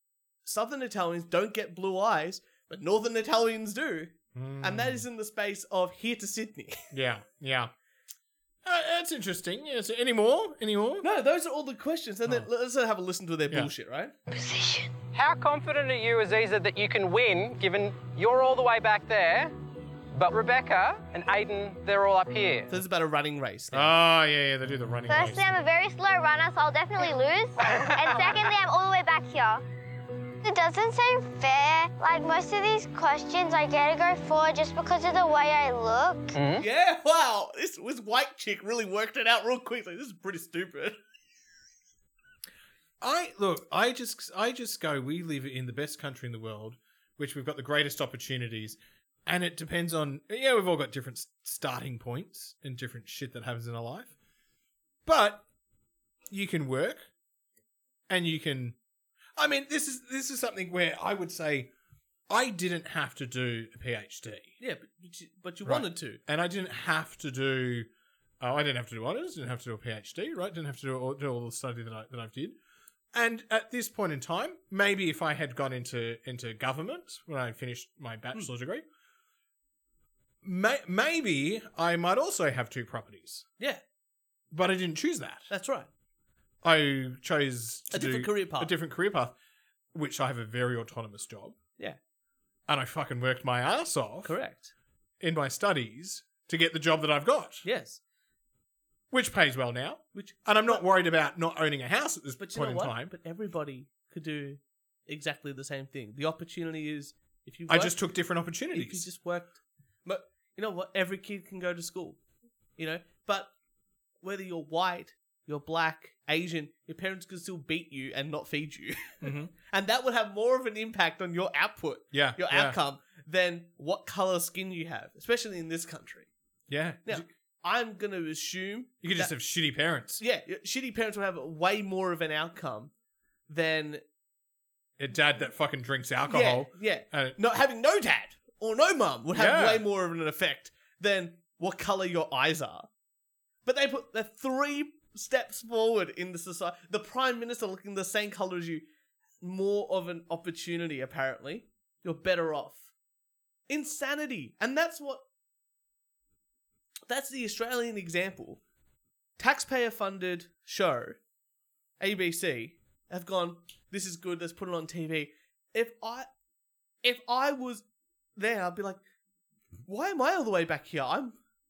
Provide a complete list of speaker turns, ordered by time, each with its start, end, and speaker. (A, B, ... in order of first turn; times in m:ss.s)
0:00.4-0:06.8 A
0:04.3-0:05.0 B
0:06.9-0:07.7 B
0:08.6-0:11.0 B
0:11.0-0:14.1 A
0:14.3-0:14.9 C
0:15.1-0:19.5 D
0:20.1-0:22.7 D
0:22.7-0:23.9 A
0:23.7-0:25.5 B
0:25.1-0:29.6 C
0:30.4-0:36.3 C
0:36.3-0:36.6 D
0:36.6-0:41.0 A
0:43.0-0:54.1 B
0:55.0-0:55.4 B
0:56.3-0:57.1 B
0:58.1-0:58.8 B
0:59.4-1:01.7 B
1:02.3-1:04.5 B
1:04.6-1:06.2 A
1:05.6-1:07.9 B
1:08.4-1:12.6 B
1:13.1-1:18.8 B
1:20.4-1:23.4 B
1:24.5-1:25.5 B
1:25.5-1:25.9 A
1:26.6-1:29.3 B
1:27.9-1:28.7 A
1:29.9-1:31.6 B
1:32.7-1:34.3 B
1:34.2-1:34.7 A
1:35.2-1:37.6 B
1:37.6-1:38.0 A
1:39.1-1:43.1 B
1:40.1-1:40.8 A
1:42.4-1:48.0 A
1:47.7-1:49.0 B
1:48.7-1:52.2 A
1:52.8-1:53.5 A
1:54.2-2:06.3 A
1:59.2-1:59.5 B
2:02.1-2:02.8 B
2:06.7-2:07.3 B
2:07.0-2:09.3 A
2:09.0-2:10.2 B
2:10.2-2:12.9 A
2:13.5-2:14.0 A
2:15.0-2:17.4 B
2:16.3-2:22.9 A
2:19.3-2:19.8 B
2:23.6-2:28.8 A
2:29.4-2:32.9 A
2:33.7-2:35.2 A
2:37.1-2:38.6 A
2:39.4-2:41.2 A
2:42.0-2:46.3 A
2:47.0-2:47.8 A
2:48.4-2:49.0 A
2:49.9-2:51.4 A